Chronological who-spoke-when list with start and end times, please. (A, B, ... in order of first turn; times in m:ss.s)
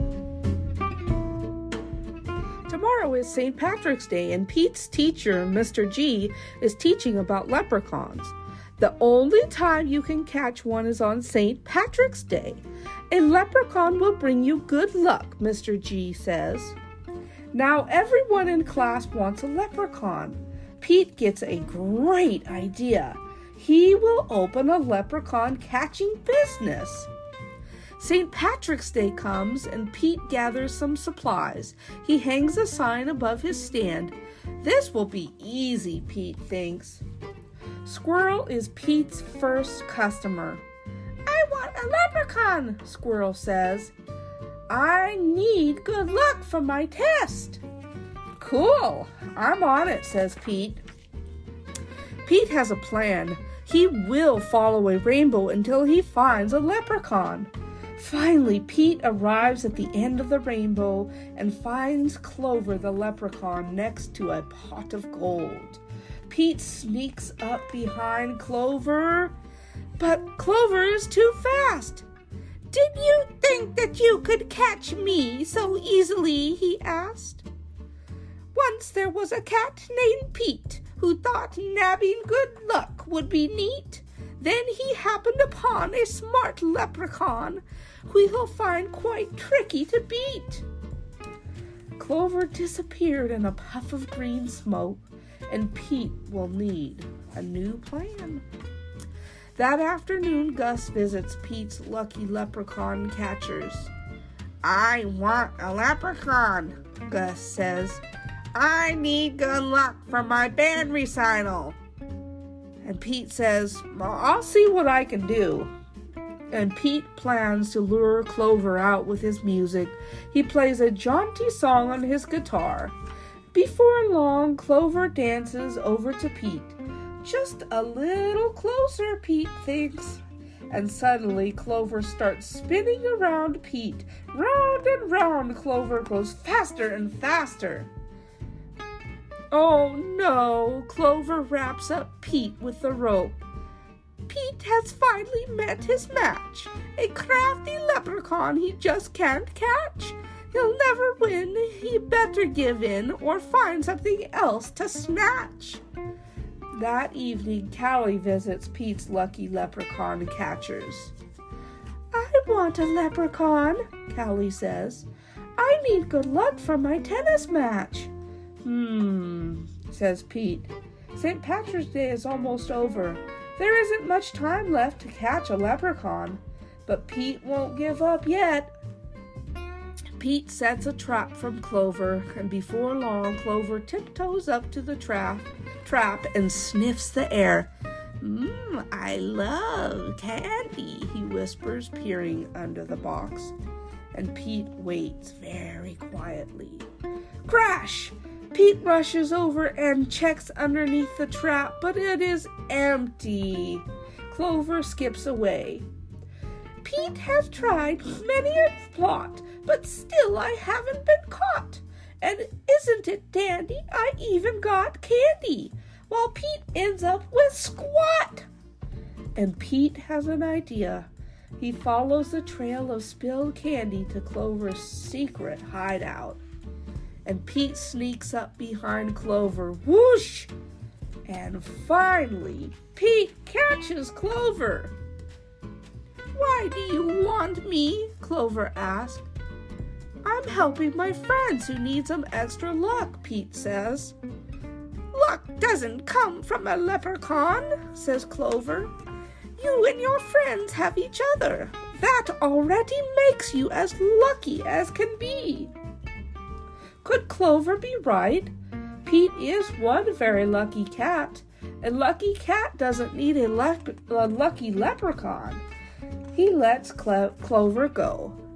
0:02.7-0:16.8 A
0:17.5-0:27.1 A
0:28.0-0:37.0 A
0:37.8-0:40.6 A
0:41.2-0:43.9 A
0:44.7-0:47.6 A
0:48.4-0:50.8 A
0:52.2-1:09.3 A
1:10.0-1:12.0 A
1:12.7-1:17.4 A
1:18.5-1:30.6 A
1:32.0-1:38.4 A
1:39.5-1:43.9 A
1:44.6-1:48.0 A
1:48.5-1:51.8 A
1:52.8-1:55.7 A
1:56.5-2:02.9 A
2:03.5-2:17.9 A
2:19.5-2:23.4 A
2:24.3-2:35.8 A
2:36.7-2:41.1 A
2:42.1-2:48.1 A
2:48.6-2:58.7 A
3:00.2-3:13.5 A
3:14.1-3:16.8 A
3:17.4-3:25.8 A
3:26.8-3:38.5 A
3:39.3-3:46.4 A
3:47.2-3:50.5 A
3:51.3-3:54.9 A
3:56.3-3:59.3 A
4:00.2-4:04.1 A
4:05.1-4:08.9 A
4:09.6-4:15.7 A
4:17.0-4:18.5 A
4:19.0-4:25.6 A
4:26.3-4:28.4 A